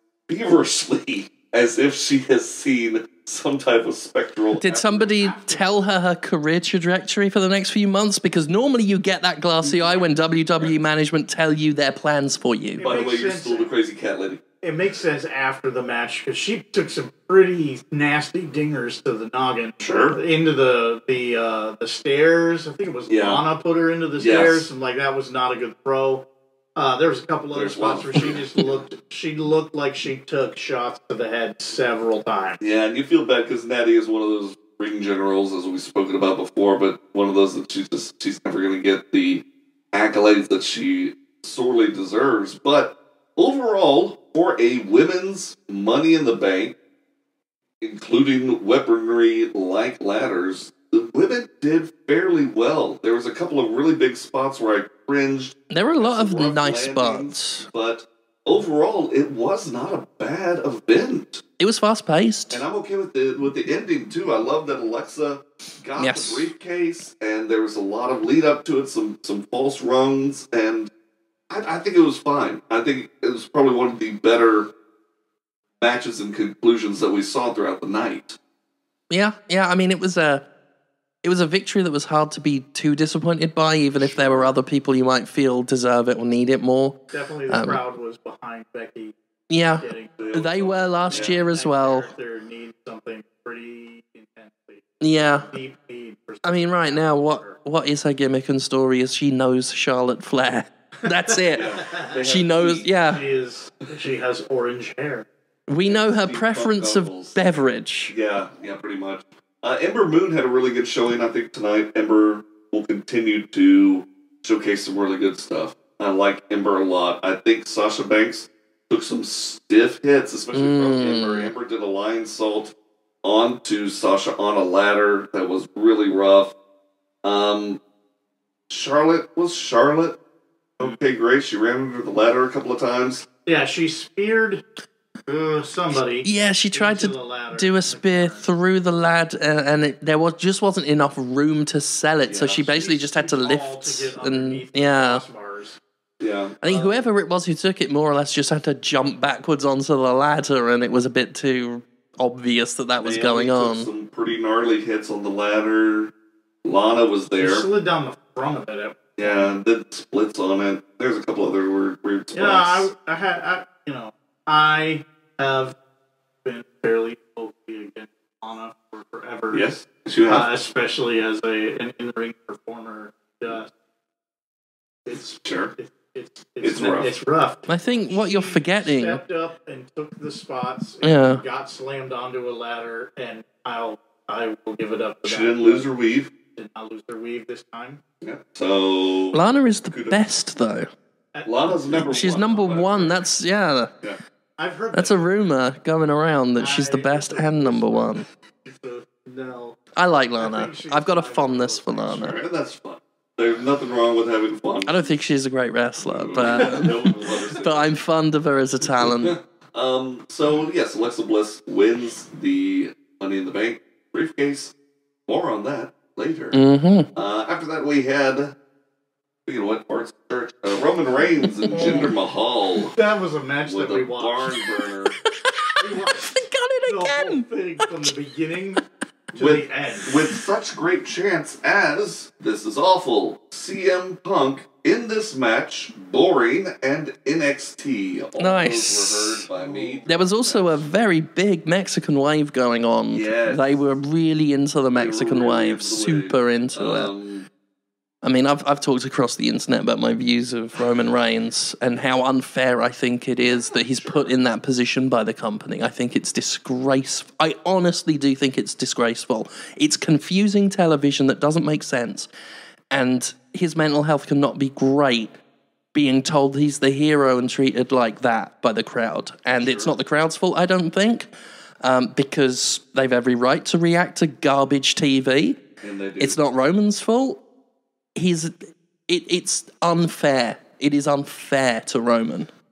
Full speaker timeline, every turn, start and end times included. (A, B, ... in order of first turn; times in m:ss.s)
0:00.3-0:04.9 A
0:04.6-0:12.8 B
0:04.9-0:05.8 C
0:09.6-0:10.7 A
0:12.8-0:13.7 C
0:12.8-0:14.4 A
0:14.6-0:32.6 C
0:19.8-0:20.2 A
0:23.1-0:23.4 A
0:24.2-0:24.7 A
0:27.5-0:28.4 A
0:32.6-0:46.7 A
0:47.8-1:01.4 A
0:55.7-0:57.7 B
1:01.6-1:02.6 B
1:02.5-1:10.9 A
1:06.0-1:06.5 B
1:11.5-1:14.7 A
1:15.8-1:18.4 A
1:19.1-1:20.4 B
1:21.2-1:27.0 B
1:24.0-1:24.5 A
1:27.1-1:29.1 C
1:27.5-1:27.8 B
1:29.5-1:32.1 B
1:29.8-1:37.6 C
1:30.3-1:31.4 A
1:35.0-1:35.5 B
1:36.4-1:43.2 B
1:41.3-1:42.2 C
1:41.6-1:42.9 A
1:43.1-1:45.3 C
1:45.7-1:48.1 B
1:45.8-1:47.4 A
1:48.1-2:02.7 A
2:00.5-2:01.5 B
2:03.2-2:06.5 A
2:07.2-2:07.8 A
2:08.7-2:10.2 A
2:10.8-2:13.2 A
2:13.5-2:14.6 C
2:15.3-2:18.4 C
2:16.2-2:25.2 B
2:22.3-2:22.6 A
2:22.7-2:25.8 C
2:26.2-2:27.0 A
2:26.6-2:33.9 B
2:33.0-2:36.1 A
2:36.6-2:37.7 A
2:37.4-2:39.5 C
2:39.2-2:42.9 A
2:42.3-2:45.8 C
2:46.4-2:49.7 C
2:49.5-2:50.5 A
2:50.3-2:53.7 C
2:55.1-3:05.9 C
2:55.4-2:55.7 A
2:56.6-2:57.1 A
2:57.7-2:59.2 B
3:01.0-3:01.4 B
3:05.2-3:06.3 A
3:06.6-3:08.0 C
3:08.2-3:10.2 A
3:09.3-3:10.9 B
3:11.3-3:12.2 C
3:11.5-3:13.2 A
3:12.1-3:13.9 B
3:14.6-3:15.3 C
3:14.9-3:18.2 B
3:16.6-3:19.8 C
3:20.0-3:22.4 B
3:20.4-3:22.3 C
3:22.2-3:25.1 A
3:24.9-3:29.4 B
3:26.0-3:27.9 A
3:26.5-3:27.2 C
3:29.0-3:34.7 A
3:35.3-3:36.6 A
3:36.5-3:37.1 B
3:37.2-3:38.5 A
3:39.5-3:43.0 A
3:41.4-3:42.1 B
3:41.7-3:42.1 C
3:43.0-3:44.5 C
3:43.7-3:45.2 A
3:45.3-3:48.1 B
3:45.8-3:46.3 C
3:46.9-3:48.8 C
3:49.4-3:50.2 C
3:49.4-4:00.8 A
3:58.4-3:59.4 B
3:59.6-4:00.5 C
4:00.1-4:07.1 B
4:03.1-4:03.8 A
4:04.9-4:07.5 A
4:08.2-4:22.3 B
4:22.9-4:25.3 B
4:25.9-4:31.3 B
4:29.6-4:29.9 A
4:31.8-4:35.6 B
4:35.8-4:36.4 A
4:36.2-4:37.4 B
4:38.2-4:42.5 B